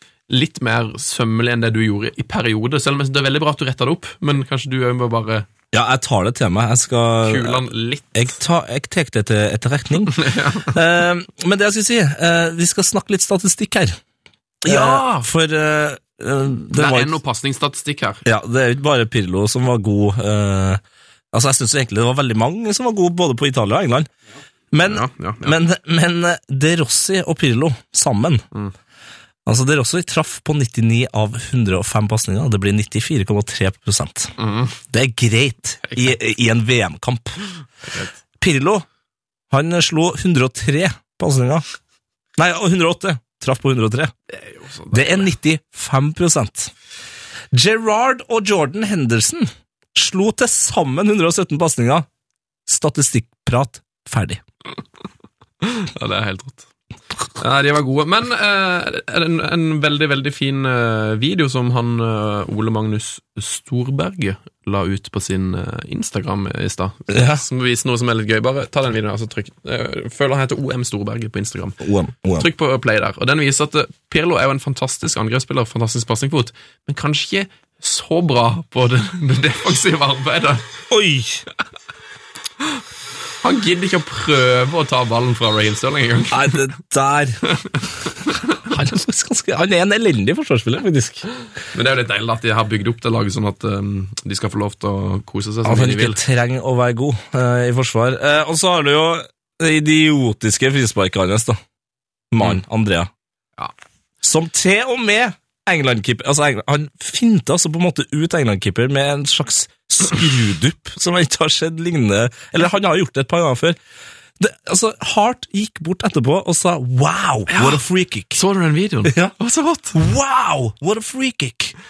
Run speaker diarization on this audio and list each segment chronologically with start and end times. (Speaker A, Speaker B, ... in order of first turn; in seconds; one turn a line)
Speaker A: 0.3-5.5
Speaker B: 5.7-14.0
Speaker A: 7.2-8.4
Speaker A: 10.1-10.8
Speaker B: 14.6-17.1
Speaker A: 14.7-15.3
Speaker A: 16.8-18.2
Speaker B: 18.2-20.8
Speaker B: 21.3-24.1
Speaker B: 24.7-28.4
Speaker A: 24.8-25.6
Speaker B: 29.5-37.4
Speaker A: 34.4-34.8
Speaker A: 35.9-36.1
Speaker B: 38.4-38.9
Speaker B: 39.5-41.6
Speaker B: 42.4-44.1
Speaker A: 44.3-45.3
Speaker B: 44.9-46.7
Speaker B: 47.5-52.1
Speaker B: 52.7-54.4
Speaker A: 55.6-56.7
Speaker A: 57.4-71.8
Speaker B: 67.1-67.4
Speaker B: 71.8-72.5
Speaker A: 72.3-80.7
Speaker B: 80.9-81.5
Speaker A: 83.4-86.6
Speaker B: 86.3-87.4
Speaker B: 88.7-91.2
Speaker A: 91.7-96.2
Speaker B: 95.7-101.6
Speaker B: 102.3-103.1
Speaker B: 104.2-113.8
Speaker B: 114.4-118.4
Speaker A: 117.5-117.8
Speaker A: 118.3-120.0
Speaker B: 119.0-119.3
Speaker B: 119.9-121.7